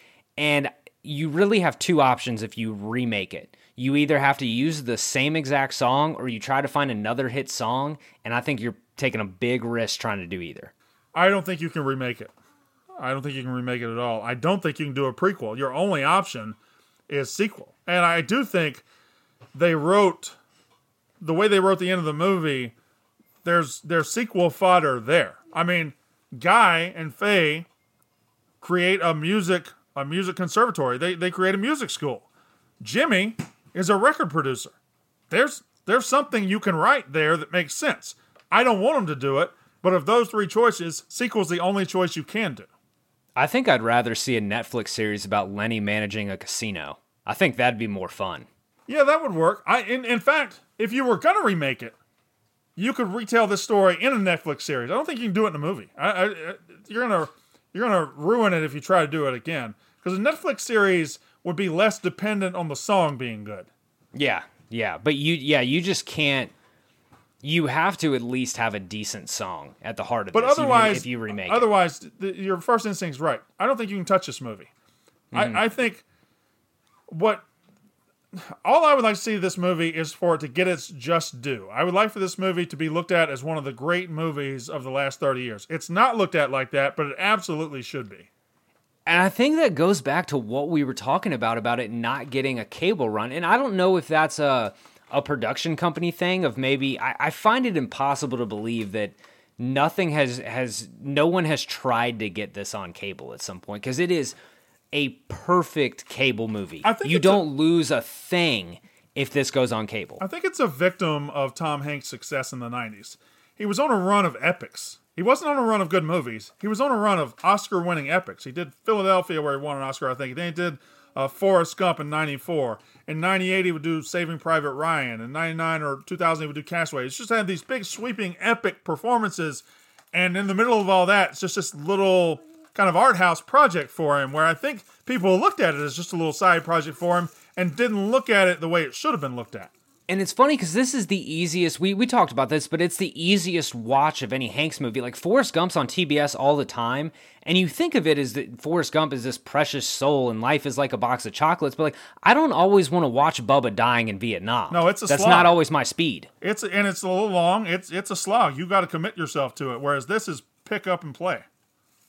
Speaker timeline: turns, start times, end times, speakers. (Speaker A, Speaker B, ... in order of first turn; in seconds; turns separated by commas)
Speaker A: 0.4-10.7, Speaker B: 11.1-12.3, Speaker B: 13.0-16.6, Speaker B: 17.1-18.8, Speaker B: 19.5-20.3, Speaker B: 21.2-22.7, Speaker B: 23.4-27.6, Speaker B: 28.6-32.3, Speaker B: 32.8-34.7, Speaker B: 35.3-42.7, Speaker A: 43.4-48.5, Speaker B: 48.9-51.9, Speaker B: 52.8-63.7, Speaker A: 64.1-66.5, Speaker A: 67.4-71.7, Speaker B: 70.3-74.7, Speaker A: 75.3-75.6, Speaker B: 75.3-76.0, Speaker B: 77.1-77.4, Speaker B: 78.3-88.3, Speaker A: 89.0-104.3, Speaker A: 104.9-110.2, Speaker B: 106.8-107.4, Speaker B: 110.2-139.7, Speaker A: 140.1-156.3, Speaker B: 154.7-155.5, Speaker B: 156.4-161.4